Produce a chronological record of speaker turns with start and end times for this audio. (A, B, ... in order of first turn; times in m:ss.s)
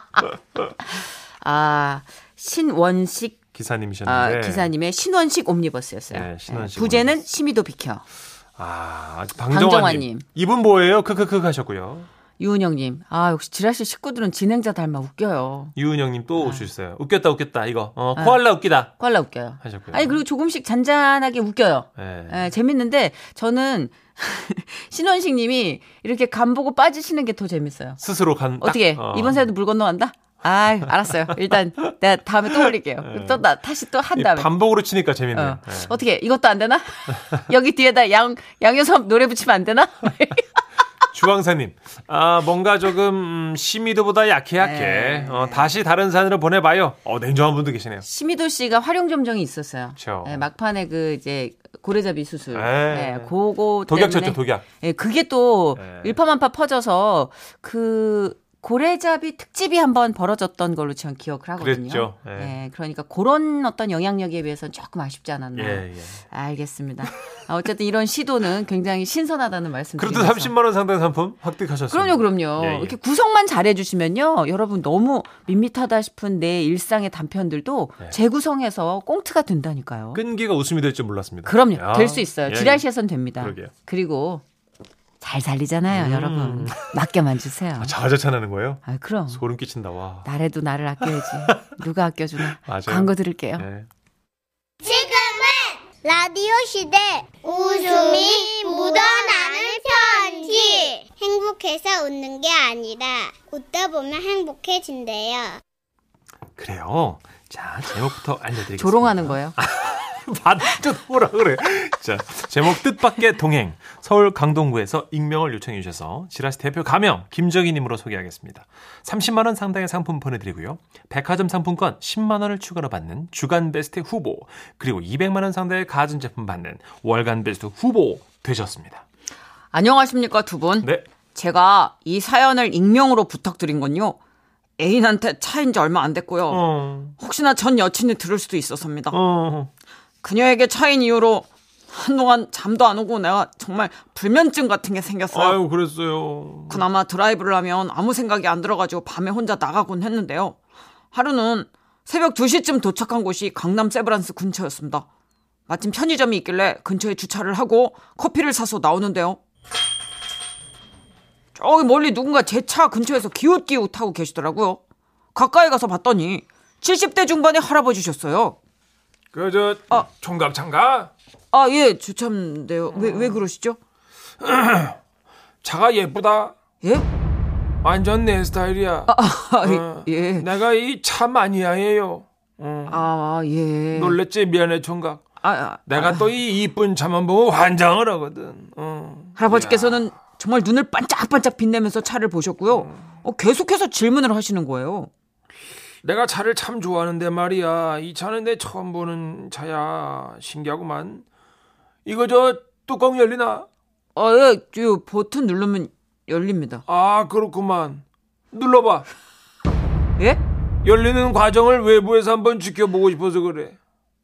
0:00.2-0:00.7 A
0:00.8-0:03.4 B
0:03.5-0:04.7 A
0:04.0-0:08.0 B
0:06.1-0:07.2 A
0:08.6-0:12.1 A
0:09.5-0:10.2 B
0:12.4-0:15.7 B
0:15.8-0:18.9 A
0:19.0-0:28.0 B
0:19.6-0:20.2 A
0:22.0-0:22.5 A
0:28.0-0:29.4 A
0:28.6-0:34.5 B
0:33.0-0:33.4 A
0:34.1-0:35.9 A
0:35.3-0:40.4 B
0:41.1-0:48.0 A
0:44.6-0:45.7 B
0:48.0-1:10.5 B
0:50.0-0:50.4 A
0:52.5-0:53.3 A
0:53.8-0:54.6 A
0:55.8-0:56.2 A
1:01.6-1:02.5 A
1:05.6-1:06.2 A
1:10.0-1:13.0 A
1:11.9-1:20.2 B
1:20.1-1:22.8 A
1:21.4-1:24.4 B
1:23.4-1:23.7 A
1:25.2-1:27.9 B
1:25.9-1:26.8 A
1:27.8-1:30.3 A
1:28.8-1:29.4 B
1:30.2-1:33.6 B
1:31.0-1:31.6 A
1:32.4-1:33.9 A
1:34.8-1:45.6 C
1:46.6-2:09.0 A
1:48.8-1:49.6 B
2:09.7-2:14.2 B
2:14.8-2:16.6 B
2:16.5-2:17.1 A
2:17.2-2:19.2 B
2:19.1-2:19.7 A
2:20.2-2:25.6 B
2:25.3-2:26.8 A
2:26.7-2:30.6 B
2:31.1-2:35.0 B
2:35.7-2:39.4 B
2:41.5-2:44.8 B
2:45.3-2:48.6 B
2:49.3-2:51.1 A
2:51.5-2:53.8 B
2:52.9-2:53.4 A
2:54.4-2:55.0 A
2:55.6-2:56.6 A
2:57.8-3:03.0 A
2:59.1-3:00.5 B
3:02.9-3:04.2 B
3:03.9-3:05.2 A
3:05.4-3:06.3 B
3:05.9-3:10.0 A
3:09.4-3:15.1 B
3:12.7-3:13.0 A
3:16.0-3:21.2 A
3:22.0-3:23.7 A
3:24.1-3:26.8 B
3:26.9-3:29.1 A
3:30.8-3:33.7 A